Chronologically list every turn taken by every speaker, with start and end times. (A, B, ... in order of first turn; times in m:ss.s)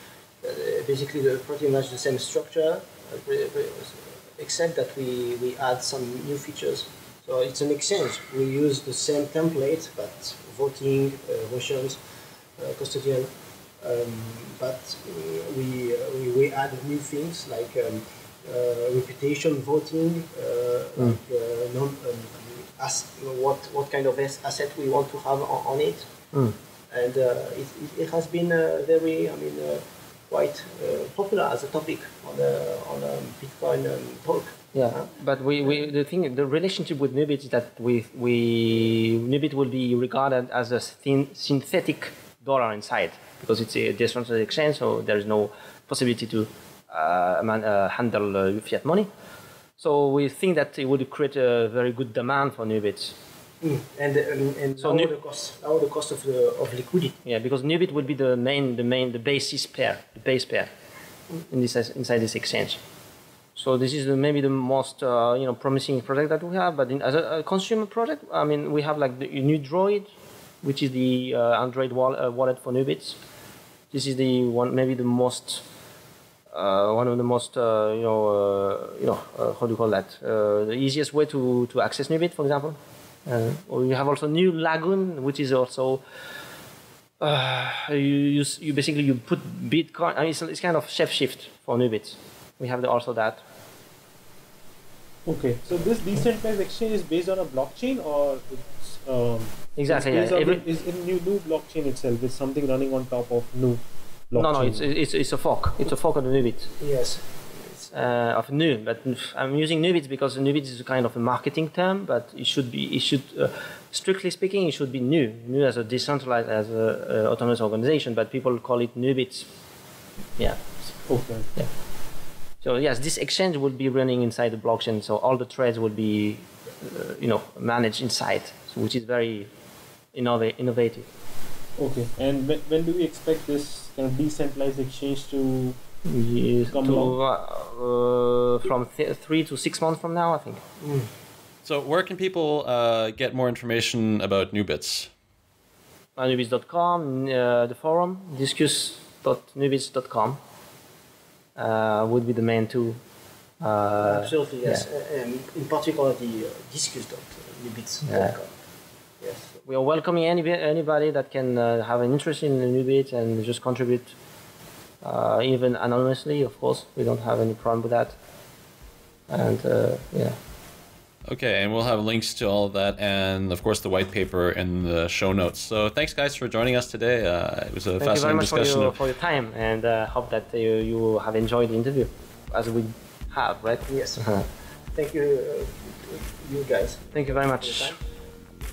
0:00.4-0:12.0 A
0:12.6-0:26.1 A
0:26.9-0:35.1 A
0:34.8-0:49.1 B
0:49.8-0:53.2 B
0:53.6-0:57.2 A
0:54.8-0:55.1 B
0:57.2-1:00.7 B
1:01.5-1:02.8 B
1:03.6-1:10.1 B
1:10.6-1:13.2 B
1:13.9-1:15.6 B
1:16.5-1:26.0 B
1:27.2-1:33.4 B
1:35.3-1:44.8 C
1:39.8-1:40.6 B
1:44.4-1:46.7 B
1:46.8-1:48.0 A
1:47.9-1:59.5 B
2:01.1-2:01.5 C
2:02.6-2:09.5 B
2:10.1-2:11.1 B
2:11.8-2:15.8 C
2:16.0-2:20.6 B
2:16.7-2:17.2 C
2:20.8-2:21.1 A
2:21.6-2:25.1 D
2:26.2-2:30.4 B
2:31.6-2:33.0 B
2:33.6-2:34.8 B
2:34.0-2:38.5 A
2:38.1-2:38.3 B
2:39.2-2:39.6 A
2:39.7-2:44.1 B
2:45.0-2:48.2 B
2:49.3-2:50.4 B
2:51.3-2:59.0 D
2:58.0-3:04.5 B
3:03.9-3:04.2 A
3:04.9-3:08.0 A
3:07.1-3:08.0 B